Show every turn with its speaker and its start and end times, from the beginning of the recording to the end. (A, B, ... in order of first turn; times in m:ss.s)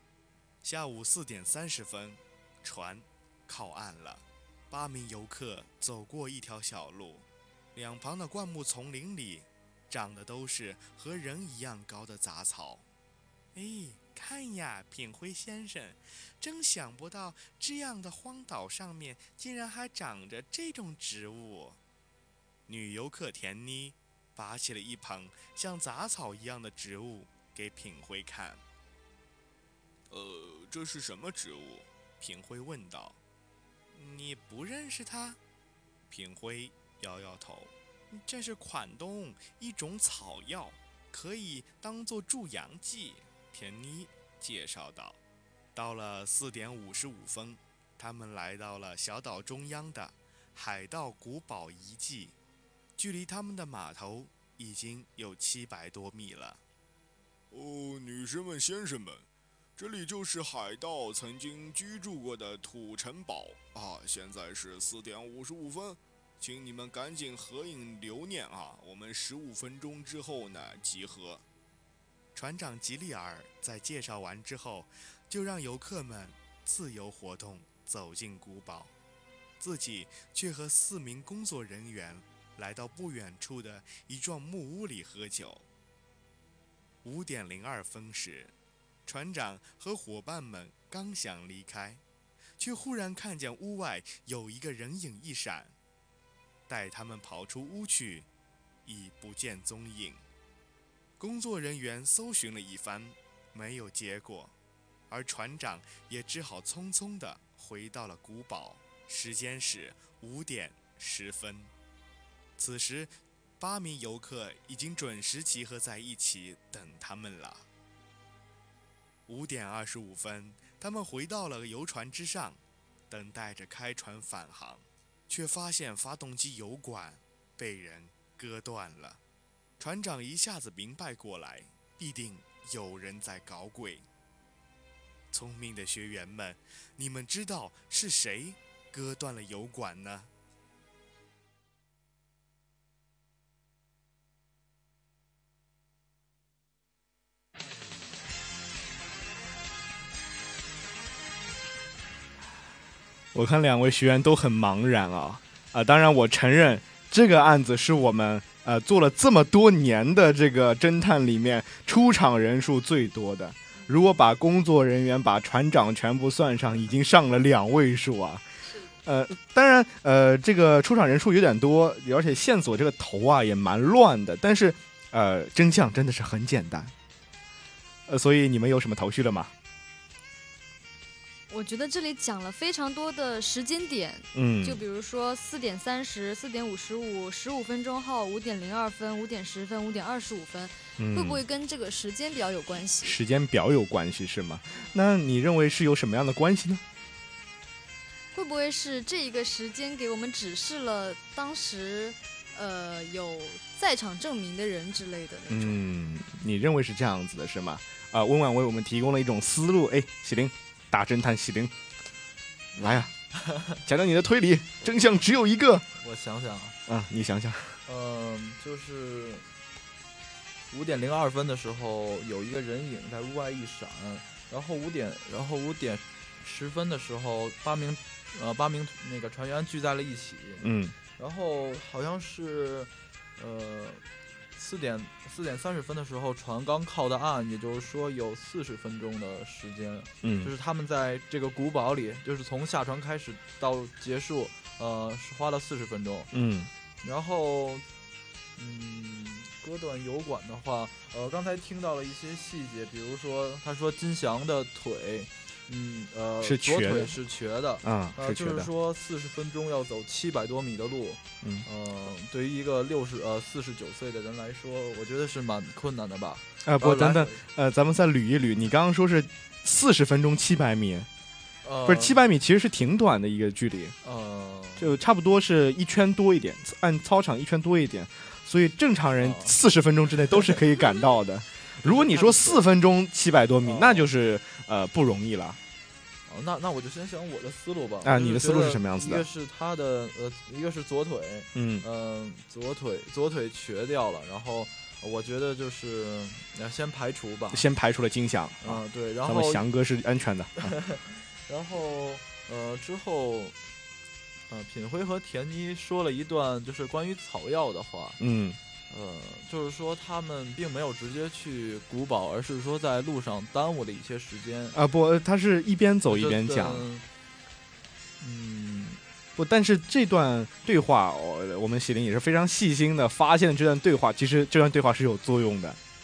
0:00.6-0:12.8 A
0:13.5-0:21.8 A
0:22.7-0:28.6 A
0:30.1-0:33.2 A
0:33.9-0:35.4 A
0:36.1-0:45.2 A
0:45.7-0:52.3 A
0:53.0-0:56.6 A
0:57.5-1:11.4 A
1:12.3-1:18.9 A
1:19.6-1:25.6 A
1:27.0-1:28.5 A
1:29.0-1:32.0 A
1:32.6-1:35.7 A
1:36.7-1:38.3 A
1:38.8-1:40.2 A
1:41.2-1:44.5 A
1:45.1-1:51.7 A
1:52.6-1:57.6 A
1:59.3-2:09.2 A
2:09.8-2:14.0 A
2:15.3-2:20.3 A
2:33.3-2:48.4 A
2:49.0-2:56.9 A
2:58.1-2:59.5 A
3:01.5-3:13.2 B
3:04.3-3:04.8 A
3:11.0-3:11.4 A
3:13.0-3:16.8 A
3:18.3-3:25.8 B
3:25.5-3:31.7 A
3:32.8-3:33.1 A
3:33.4-3:33.8 C
3:33.8-3:35.8 A
3:36.0-3:36.8 C
3:36.9-3:37.8 A
3:37.8-3:39.4 C
3:40.7-3:50.6 C
3:50.6-3:50.9 A
3:51.2-3:54.0 C
3:54.6-4:06.3 C
4:00.2-4:00.5 A
4:06.3-4:06.7 A
4:07.0-4:07.8 C
4:08.6-4:27.4 C
4:16.4-4:17.2 A
4:17.8-4:18.7 A
4:26.6-4:31.1 A
4:31.6-4:32.2 C
4:31.8-4:33.9 A
4:34.0-4:35.0 C
4:34.8-4:45.6 A
4:39.2-4:39.5 C
4:41.8-4:42.6 C
4:43.6-4:44.1 C
4:46.3-4:57.7 C
4:48.0-4:49.2 A
4:51.5-4:51.8 A
4:57.5-5:00.7 A
4:58.6-4:59.6 C
5:00.6-5:03.6 C
5:04.5-5:08.2 C
5:08.2-5:08.6 A
5:08.9-5:14.8 C
5:14.7-5:16.8 A
5:16.1-5:17.0 C
5:18.2-5:19.0 C
5:19.4-5:25.8 A